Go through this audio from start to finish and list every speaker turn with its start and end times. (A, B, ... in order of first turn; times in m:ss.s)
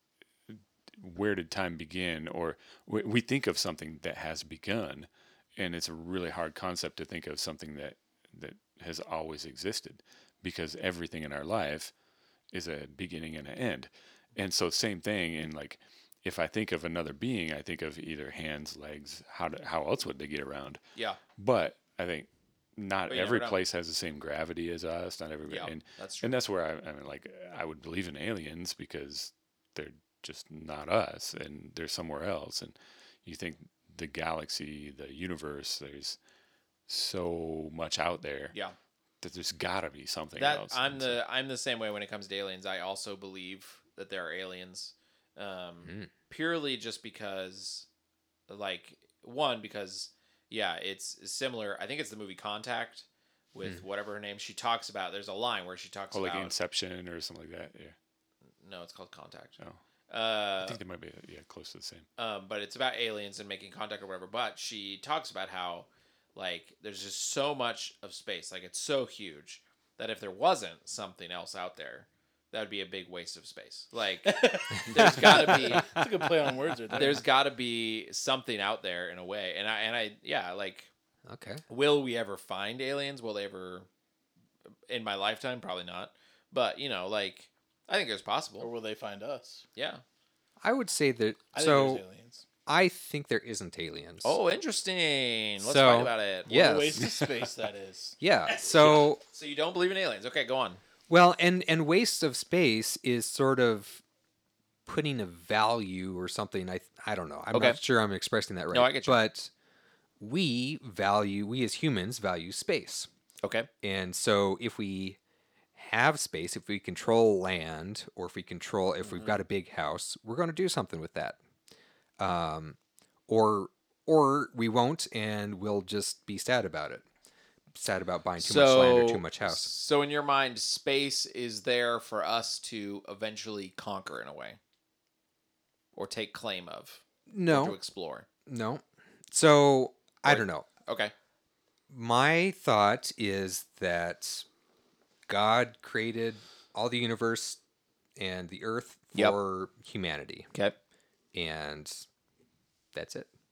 0:00.5-0:11.9 A
0:12.5-0:20.8 A
0:21.4-0:36.2 A
0:23.1-0:23.6 B
0:25.5-0:26.3 B
0:36.9-0:38.5 A
0:39.2-0:41.2 A
0:40.4-0:47.8 B
0:48.5-0:56.5 B
0:56.1-0:57.9 A
0:58.6-0:59.6 B
1:00.1-1:00.8 B
1:00.6-1:02.1 A
1:02.2-1:15.9 B
1:14.2-1:17.2 C
1:15.0-1:15.6 D
1:16.9-1:20.9 B
1:21.2-1:21.6 D
1:21.7-1:23.9 B
1:24.9-1:28.7 B
1:28.6-1:29.6 C
1:29.8-1:30.0 B
1:30.6-1:32.0 D
1:31.5-1:32.4 C
1:32.6-1:34.4 D
1:34.2-1:36.5 B
1:35.6-1:37.1 D
1:36.4-1:38.2 C
1:38.2-1:39.2 D
1:38.5-1:40.8 B
1:41.1-1:44.0 D
1:44.8-1:49.5 D
1:47.5-1:47.8 B
1:48.7-1:49.2 B
1:50.2-1:53.1 D
1:53.4-1:53.7 B
1:53.8-1:55.2 D
1:55.7-2:01.4 D
1:59.1-1:59.4 B
2:02.2-2:02.8 D
2:03.3-2:07.0 D
2:07.7-2:09.7 D
2:08.4-2:14.6 B
2:15.9-2:18.2 B
2:17.3-2:17.8 D
2:18.4-2:20.7 D
2:20.2-2:21.1 B
2:21.9-2:24.4 D
2:25.3-2:27.6 D
2:28.2-2:30.5 D
2:31.3-2:32.0 D
2:32.9-2:33.3 D